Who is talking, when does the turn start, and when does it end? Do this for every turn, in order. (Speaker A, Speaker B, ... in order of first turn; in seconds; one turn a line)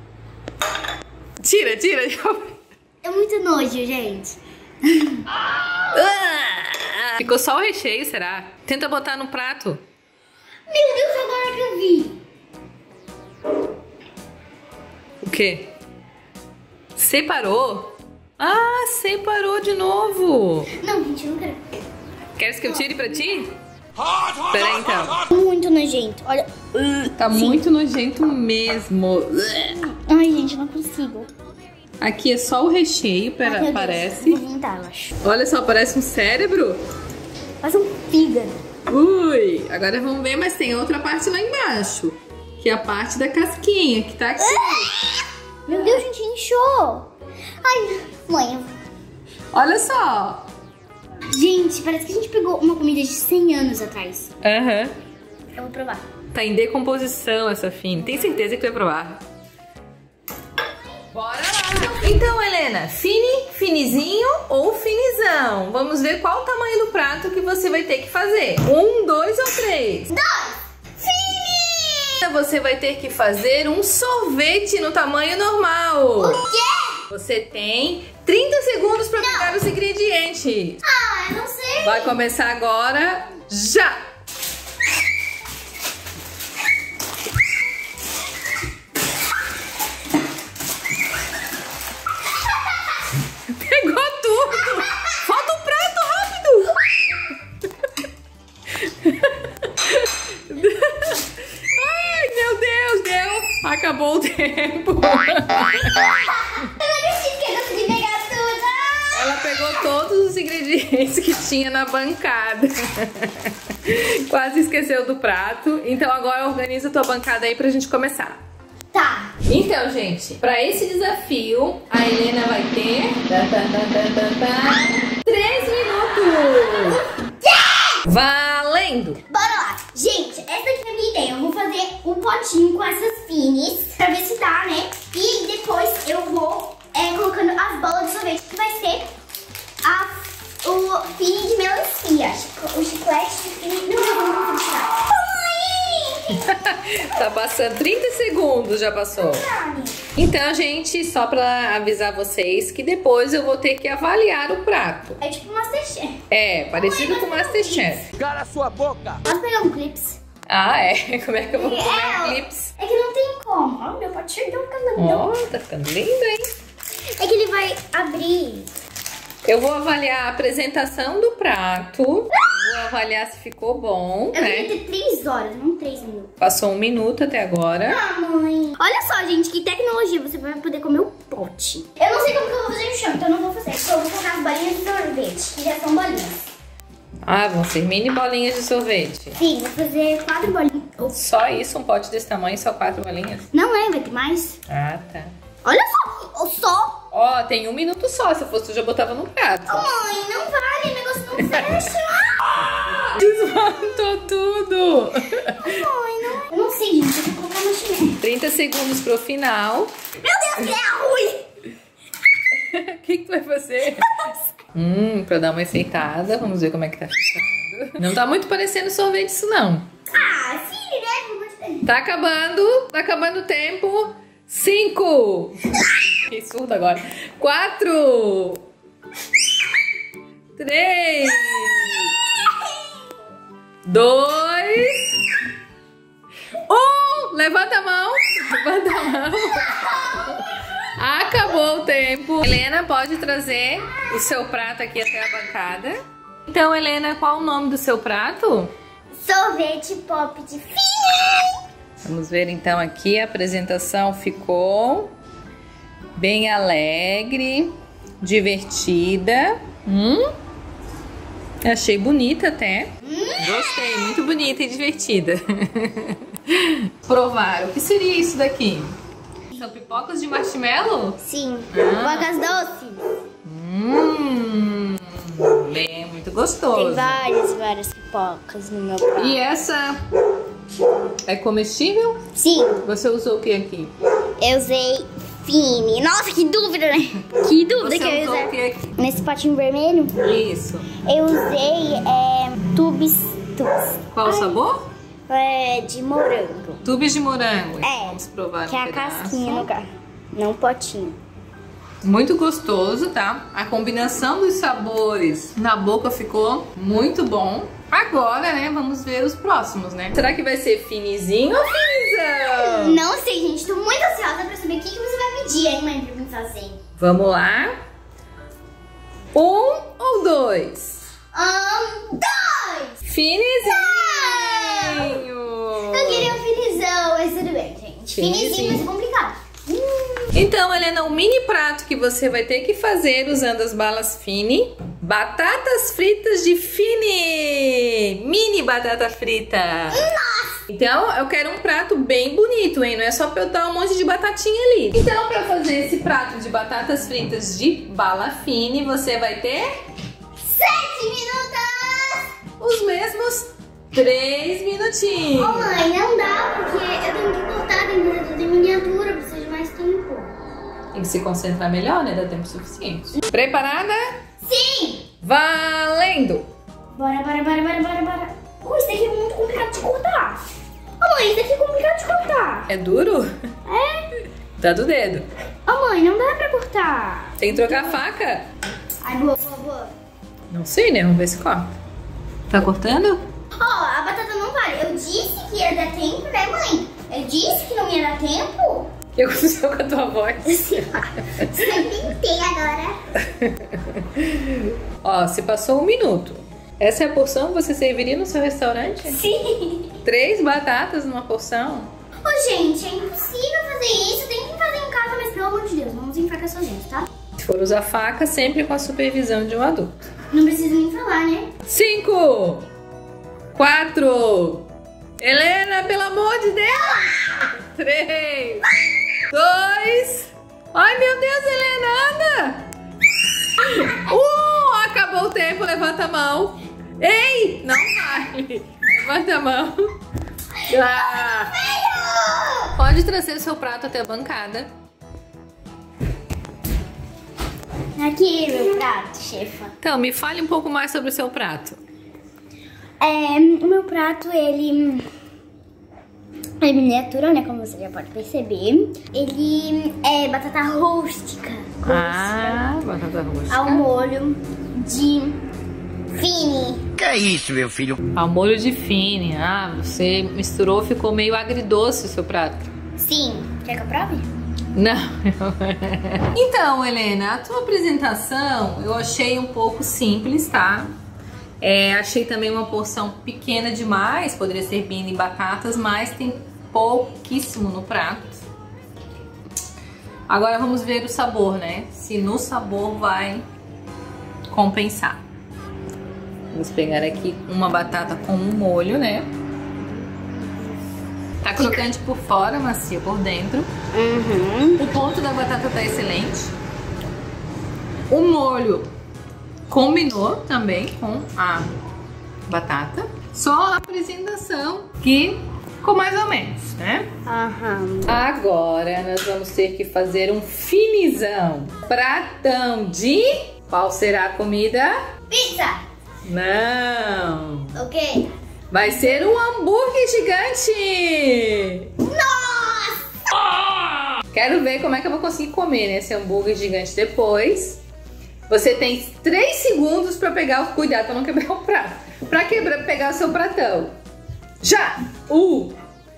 Speaker A: 1.4-2.5
Speaker B: 3.0-5.2
Speaker A: 5.9-9.8
Speaker B: 10.7-12.2
Speaker A: 15.2-15.7
Speaker A: 16.9-20.7
Speaker B: 20.7-21.7
Speaker A: 22.4-23.5
Speaker A: 24.5-25.2
Speaker B: 25.3-27.6
Speaker A: 27.2-29.9
Speaker B: 30.0-31.3
Speaker A: 32.0-34.4
Speaker B: 33.4-35.2
Speaker A: 35.2-36.8
Speaker B: 37.6-38.6
Speaker A: 38.9-44.9
Speaker B: 44.4-45.1
Speaker B: 45.7-47.1
Speaker B: 47.6-48.8
Speaker A: 49.5-50.5
Speaker B: 51.3-54.3
Speaker A: 54.4-54.9
Speaker B: 55.5-56.0
Speaker A: 56.3-59.2
Speaker A: 61.1-70.1
Speaker B: 70.1-72.2
Speaker A: 72.2-76.4
Speaker B: 76.2-77.0
Speaker A: 77.1-80.8
Speaker B: 79.2-79.5
Speaker B: 80.8-82.2
Speaker A: 81.8-84.0
Speaker A: 93.5-96.8
Speaker A: 98.8-106.2
Speaker B: 106.0-109.6
Speaker A: 109.1-118.4
Speaker B: 118.9-119.3
Speaker A: 119.5-127.0
Speaker B: 126.8-128.0
Speaker A: 128.1-129.2
Speaker B: 129.3-139.1
Speaker B: 139.8-146.4
Speaker A: 146.3-149.5
Speaker B: 149.2-150.0
Speaker A: 150.2-155.2
Speaker B: 155.2-156.2
Speaker A: 156.3-158.0
Speaker B: 156.7-158.1
Speaker C: 158.2-159.2
Speaker B: 159.2-160.2
Speaker A: 160.5-162.7
Speaker B: 161.5-165.3
Speaker A: 165.0-166.5
Speaker B: 167.2-168.7
Speaker A: 169.4-174.7
Speaker B: 174.3-176.3
Speaker A: 176.4-178.0
Speaker B: 177.8-186.4
Speaker A: 187.2-189.4
Speaker B: 189.4-191.1
Speaker A: 191.1-193.5
Speaker B: 193.5-194.6
Speaker A: 194.7-195.3
Speaker B: 195.6-197.1
Speaker A: 197.1-199.9
Speaker B: 199.7-202.5
Speaker A: 202.6-205.8
Speaker B: 205.6-208.2
Speaker A: 208.2-209.9
Speaker B: 210.2-211.4
Speaker A: 212.5-219.9
Speaker B: 220.1-221.9
Speaker A: 221.8-225.6
Speaker A: 226.2-228.6
Speaker A: 230.6-232.1
Speaker A: 233.8-235.1
Speaker A: 236.6-248.7
Speaker B: 239.8-240.4
Speaker B: 249.2-251.6
Speaker A: 252.0-255.1
Speaker A: 256.1-260.3
Speaker A: 261.6-269.0
Speaker B: 263.0-263.7
Speaker A: 269.5-271.2
Speaker B: 271.2-273.0
Speaker A: 271.7-272.3
Speaker A: 273.4-277.2
Speaker B: 276.7-279.4
Speaker A: 279.2-280.0
Speaker A: 281.2-282.2
Speaker B: 282.3-282.9
Speaker A: 282.8-283.9
Speaker B: 284.4-290.2
Speaker A: 287.8-288.9
Speaker A: 290.2-290.9
Speaker B: 291.0-294.5
Speaker A: 294.1-294.9
Speaker B: 295.3-296.8
Speaker A: 296.8-299.7
Speaker B: 297.8-298.2
Speaker B: 298.7-301.2
Speaker A: 302.0-313.0
Speaker B: 312.4-316.8
Speaker A: 317.0-317.7
Speaker A: 319.3-321.0
Speaker B: 321.3-323.0
Speaker A: 323.1-326.3
Speaker B: 323.7-325.2
Speaker B: 325.9-330.3
Speaker A: 328.1-328.9
Speaker A: 330.3-340.1
Speaker B: 339.9-340.6
Speaker A: 340.7-349.7
Speaker B: 350.4-352.3
Speaker A: 352.6-355.8
Speaker B: 355.3-360.3
Speaker A: 360.9-364.1
Speaker B: 364.4-365.1
Speaker A: 365.2-366.5
Speaker B: 366.9-370.4
Speaker B: 371.0-372.7
Speaker A: 372.7-373.3
Speaker B: 373.6-374.1
Speaker A: 374.6-375.3
Speaker B: 375.7-378.0
Speaker A: 377.4-378.4
Speaker B: 379.0-379.9
Speaker A: 380.5-381.7
Speaker A: 382.5-383.2
Speaker B: 383.6-388.9
Speaker A: 389.1-390.8
Speaker B: 390.4-393.0
Speaker A: 391.4-391.7
Speaker A: 393.2-399.2
Speaker B: 399.1-399.9
Speaker A: 400.0-401.9
Speaker B: 402.2-407.1
Speaker A: 407.4-410.0
Speaker B: 410.3-411.5
Speaker A: 411.7-412.7
Speaker A: 413.5-414.7
Speaker A: 415.2-418.6
Speaker A: 419.3-422.7
Speaker A: 423.6-429.9
Speaker A: 430.7-431.6
Speaker B: 430.7-432.8
Speaker A: 432.8-434.7
Speaker B: 437.9-439.7
Speaker A: 439.8-441.8
Speaker B: 443.0-445.1
Speaker B: 446.6-452.6
Speaker A: 451.9-453.9
Speaker B: 453.5-455.4
Speaker B: 456.1-457.0
Speaker C: 457.0-458.0
Speaker A: 458.1-462.7
Speaker B: 463.0-464.3
Speaker A: 464.7-470.9
Speaker A: 471.6-478.4
Speaker A: 480.3-483.4
Speaker A: 484.5-485.2
Speaker A: 486.5-489.3
Speaker A: 491.4-493.7
Speaker B: 493.9-494.8
Speaker A: 494.8-496.5
Speaker A: 498.1-498.9
Speaker A: 499.7-501.7
Speaker A: 502.5-507.1
Speaker B: 507.2-508.2
Speaker A: 508.1-515.0
Speaker B: 515.3-515.8
Speaker A: 516.2-517.7
Speaker B: 517.7-518.3
Speaker A: 518.7-521.9
Speaker B: 522.0-523.0
Speaker A: 524.3-527.8
Speaker A: 528.5-533.9
Speaker A: 534.6-535.7